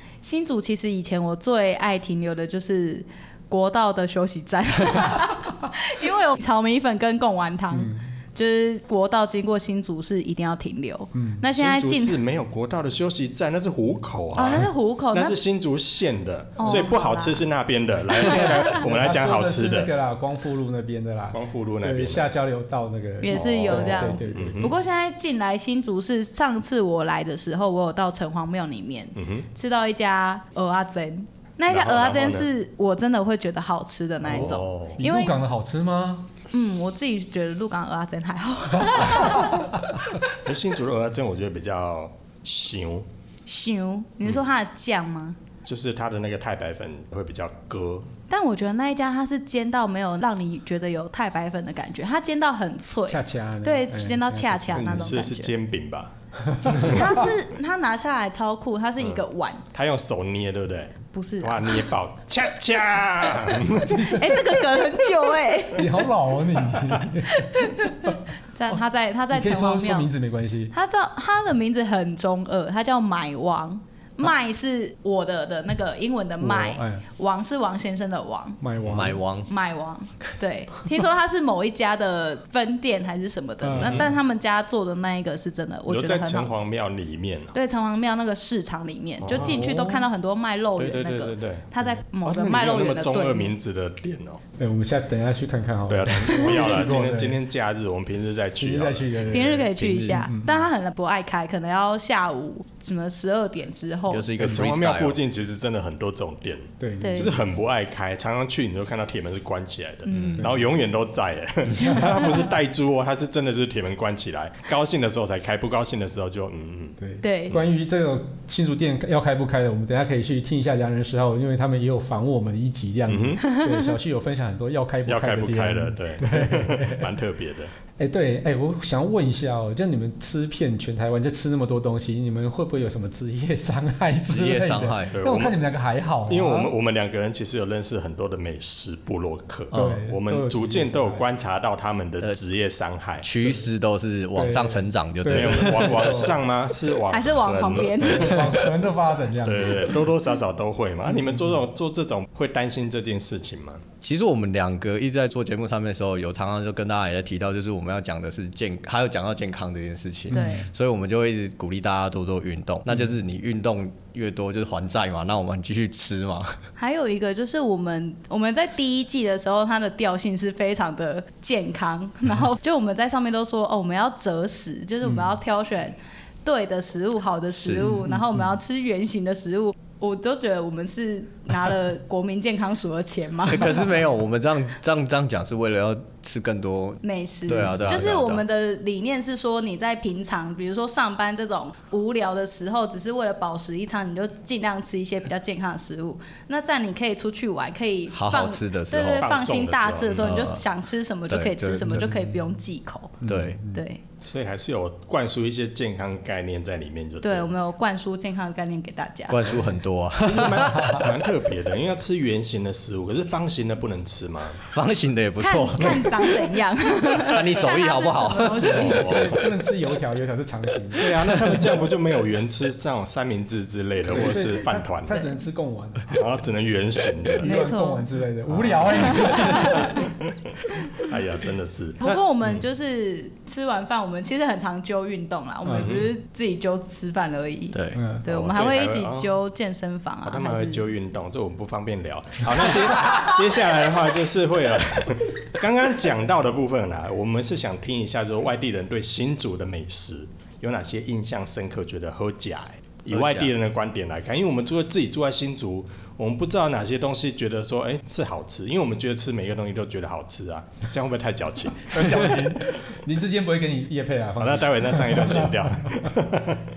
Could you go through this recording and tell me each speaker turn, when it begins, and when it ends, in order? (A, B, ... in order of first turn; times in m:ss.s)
0:00.2-0:12.2 A
0:07.7-0:08.0 B
0:11.1-0:11.4 B
0:11.5-0:19.9 C
0:14.4-0:15.4 A
0:16.6-0:17.4 A
0:18.2-0:18.6 A
0:18.7-0:24.7 B
0:21.3-0:22.3 C
0:23.2-0:35.4 A
0:23.3-0:24.7 C
0:29.2-0:29.5 C
0:31.7-0:32.5 C
0:34.2-0:35.0 C
0:35.0-0:36.3 B
0:36.5-0:39.9 A
0:40.4-0:43.1 C
0:43.5-0:45.4 A
0:45.6-0:48.1 C
0:48.3-0:55.5 A
0:53.1-0:55.0 B
0:54.7-0:57.1 C
0:56.4-0:57.0 B
0:56.8-0:59.6 A
0:59.7-1:04.4 C
1:01.1-1:01.9 A
1:03.9-1:06.1 A
1:05.7-1:07.5 B
1:06.7-1:07.0 C
1:07.4-1:10.1 A
1:08.7-1:10.7 B
1:10.7-1:18.6 A
1:16.4-1:17.0 B
1:18.6-1:19.2 B
1:18.9-1:19.5 D
1:19.4-1:26.6 A
1:23.6-1:24.1 B
1:23.7-1:24.1 C
1:25.9-1:27.6 C
1:27.5-1:33.5 A
1:29.2-1:30.0 C
1:30.8-1:34.4 C
1:34.6-1:37.4 B
1:35.9-1:39.4 C
1:38.6-1:39.7 B
1:39.3-1:44.3 A
1:39.8-1:40.3 D
1:40.2-1:40.6 B
1:44.1-1:45.2 D
1:44.4-1:57.0 C
1:46.8-1:47.4 B
1:47.0-1:47.4 A
1:50.1-1:50.4 A
1:50.1-1:50.4 D
1:51.7-1:52.1 B
1:57.0-2:07.1 B
1:57.2-1:57.6 A
2:03.1-2:03.4 C
2:05.1-2:07.7 C
2:08.0-2:16.7 B
2:14.3-2:15.2 D
2:15.1-2:15.6 C
2:16.3-2:23.3 C
2:19.7-2:20.0 D
2:19.7-2:21.2 B
2:23.2-2:26.2 D
2:24.4-2:26.4 B
2:25.3-2:28.3 C
2:27.1-2:28.6 A
2:28.0-2:30.0 B
2:29.4-2:33.8 C
2:34.0-2:46.6 D
2:40.3-2:40.6 B
2:40.3-2:40.7 A
2:46.8-3:03.9 A
2:55.0-2:55.3 B
2:57.5-2:58.0 D
2:57.8-2:58.6 B
3:03.5-3:08.4 D
3:07.0-3:24.0 A
3:18.1-3:19.3 D
3:19.2-3:20.5 C
3:20.2-3:20.6 D
3:21.3-3:22.1 D
3:23.2-3:23.8 B
3:23.2-3:23.6 D
3:24.2-3:27.5 C
3:27.2-3:29.6 A
3:29.3-3:31.1 D
3:30.2-3:34.6 C
3:30.8-3:31.0 B
3:34.6-3:39.4 D
3:35.4-3:39.3 A
3:38.7-3:41.4 B
3:38.8-3:39.4 C
3:41.0-3:45.3 C
3:41.0-3:41.6 D
3:44.1-3:46.2 B
3:46.1-3:47.6 C
3:47.3-3:50.1 B
3:47.4-3:48.1 A
3:48.5-3:52.6 C
3:49.1-3:49.9 A
3:52.0-4:00.8 A
3:55.6-3:56.0 B
3:55.8-3:56.1 C
3:57.7-3:58.0 D
3:58.0-3:58.2 B
3:58.3-3:59.3 C
4:00.2-4:22.4 C
4:13.1-4:13.5 D
4:21.9-4:25.9 B
4:24.4-4:26.6 C